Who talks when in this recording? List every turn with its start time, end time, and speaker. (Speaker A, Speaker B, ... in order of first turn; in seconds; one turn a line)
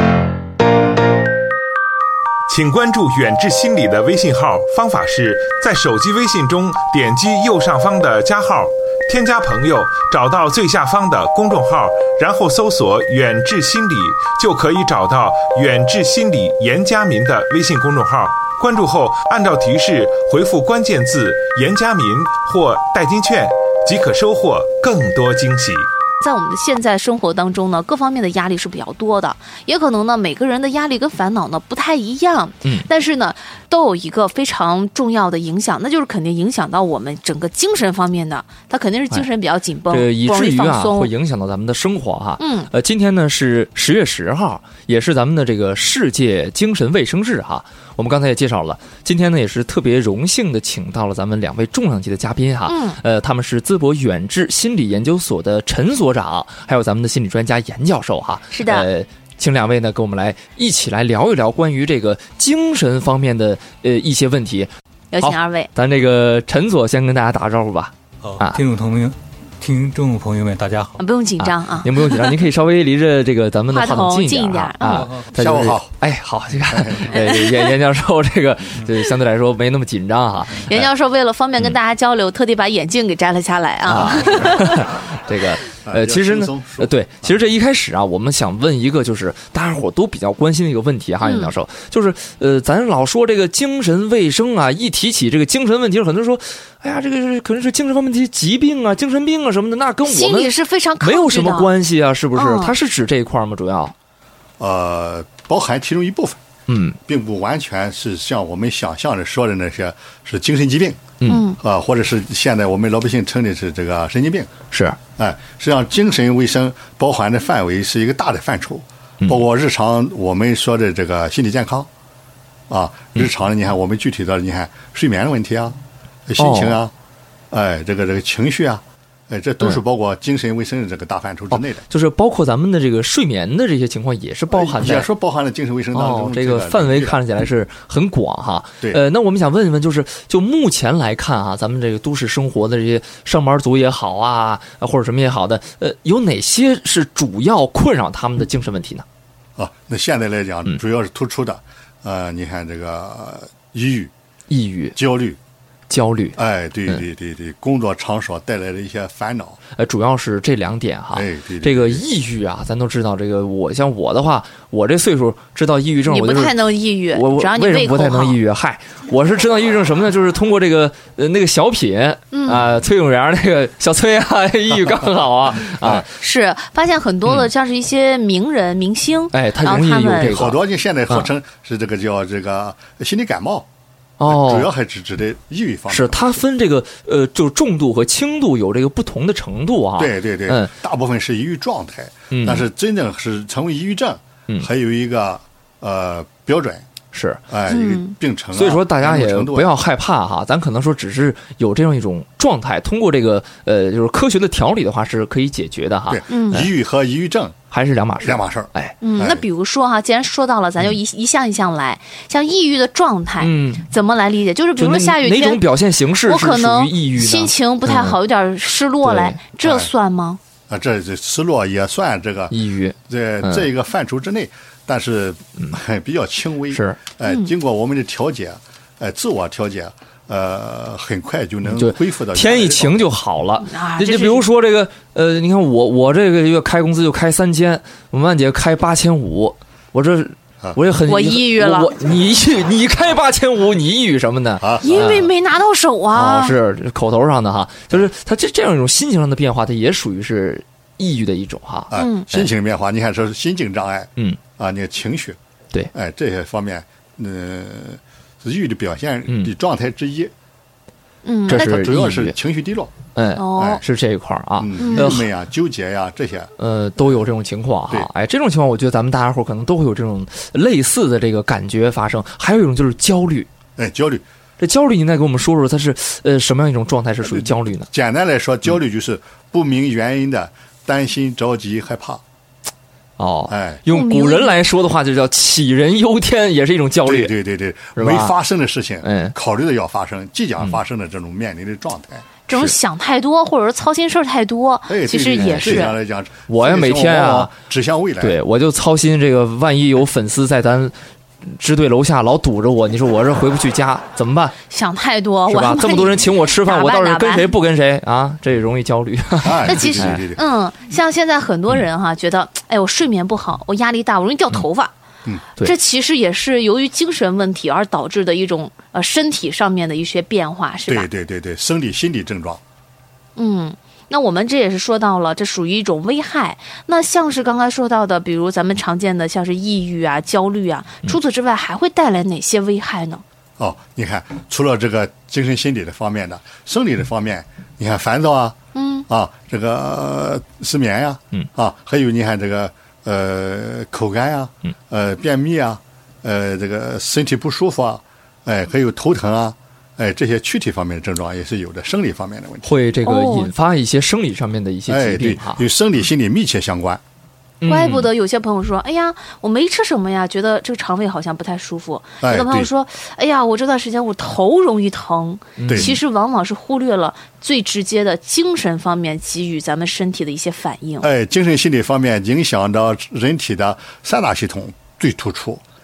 Speaker A: 2.5-25.9
Speaker B: 26.2-41.1
Speaker C: 39.9-68.6
Speaker B: 42.4-42.7
Speaker B: 52.7-53.0
Speaker B: 58.5-58.9
Speaker B: 65.1-65.7
Speaker D: 68.2-71.0
Speaker B: 71.0-72.3
Speaker C: 71.4-80.9
Speaker B: 73.7-75.1
Speaker D: 74.8-75.3
Speaker E: 75.3-75.9
Speaker E: 76.7-77.2
Speaker B: 77.1-77.6
Speaker B: 80.7-84.9
Speaker C: 83.8-103.9
Speaker E: 85.8-87.4
Speaker B: 91.2-91.5
Speaker B: 100.0-101.7
Speaker B: 102.3-102.7
Speaker E: 104.6-106.4
Speaker C: 106.7-107.0
Speaker E: 107.0-114.5
Speaker C: 111.2-111.5
Speaker B: 111.3-111.6
Speaker C: 114.7-115.0
Speaker E: 115.2-121.9
Speaker E: 122.7-126.9
Speaker C: 126.4-126.8
Speaker E: 127.5-131.8
Speaker C: 131.5-135.1
Speaker E: 134.5-137.2
Speaker C: 135.9-149.0
Speaker E: 149.6-154.1
Speaker C: 154.5-154.9
Speaker E: 154.9-155.4
Speaker C: 155.9-156.4
Speaker E: 156.3-159.6
Speaker C: 159.8-166.6
Speaker E: 161.1-162.0
Speaker B: 166.1-168.4
Speaker C: 167.1-176.1
Speaker B: 172.3-172.6
Speaker B: 176.1-180.5
Speaker C: 179.3-180.6
Speaker E: 180.3-183.7
Speaker C: 184.2-184.7
Speaker E: 184.2-186.4
Speaker C: 185.9-190.7
Speaker E: 190.0-196.8
Speaker C: 192.3-192.7
Speaker C: 197.1-197.4
Speaker E: 197.5-199.8
Speaker B: 197.7-198.1
Speaker C: 198.5-206.7
Speaker E: 206.1-207.6
Speaker B: 206.3-206.6
Speaker C: 207.7-208.9
Speaker E: 208.2-209.4
Speaker B: 209.0-215.6
Speaker C: 213.4-213.8
Speaker C: 214.8-218.2
Speaker B: 216.2-220.4
Speaker C: 219.0-219.4
Speaker E: 219.6-219.9
Speaker E: 220.7-222.5
Speaker C: 222.5-223.7
Speaker E: 223.1-233.1
Speaker C: 226.7-227.0
Speaker C: 231.6-245.3
Speaker B: 233.6-234.4
Speaker B: 241.1-241.9
Speaker E: 244.6-244.9
Speaker B: 244.8-246.6
Speaker C: 246.1-252.5
Speaker E: 251.9-255.4
Speaker B: 251.9-252.3
Speaker E: 255.9-260.3
Speaker B: 261.2-261.6
Speaker C: 261.5-262.3
Speaker E: 261.5-262.9
Speaker C: 263.1-265.3
Speaker B: 263.4-263.8
Speaker E: 263.5-263.8
Speaker E: 264.6-266.5
Speaker B: 264.8-265.2
Speaker C: 266.6-273.5
Speaker E: 273.8-274.2
Speaker C: 274.6-277.9
Speaker E: 277.2-282.2
Speaker C: 283.2-287.3
Speaker E: 283.5-283.8
Speaker B: 283.9-284.6
Speaker E: 287.0-292.3
Speaker C: 287.9-288.3
Speaker C: 289.0-289.3
Speaker B: 292.5-295.9
Speaker E: 294.9-298.4
Speaker C: 295.3-295.9
Speaker C: 296.5-297.5
Speaker C: 298.2-300.9
Speaker C: 301.5-304.6
Speaker B: 304.7-307.5
Speaker C: 305.5-310.2
Speaker E: 309.4-310.4
Speaker B: 309.6-314.9
Speaker B: 315.6-321.1
Speaker E: 320.9-322.6
Speaker B: 323.4-333.2
Speaker E: 333.6-338.6
Speaker B: 338.7-339.1
Speaker E: 339.1-352.7
Speaker C: 352.6-355.6
Speaker B: 353.0-353.5
Speaker E: 354.9-357.0
Speaker C: 357.6-358.1
Speaker B: 357.6-371.1
Speaker E: 362.2-362.7
Speaker C: 365.6-366.0
Speaker E: 365.6-365.9
Speaker E: 371.0-375.6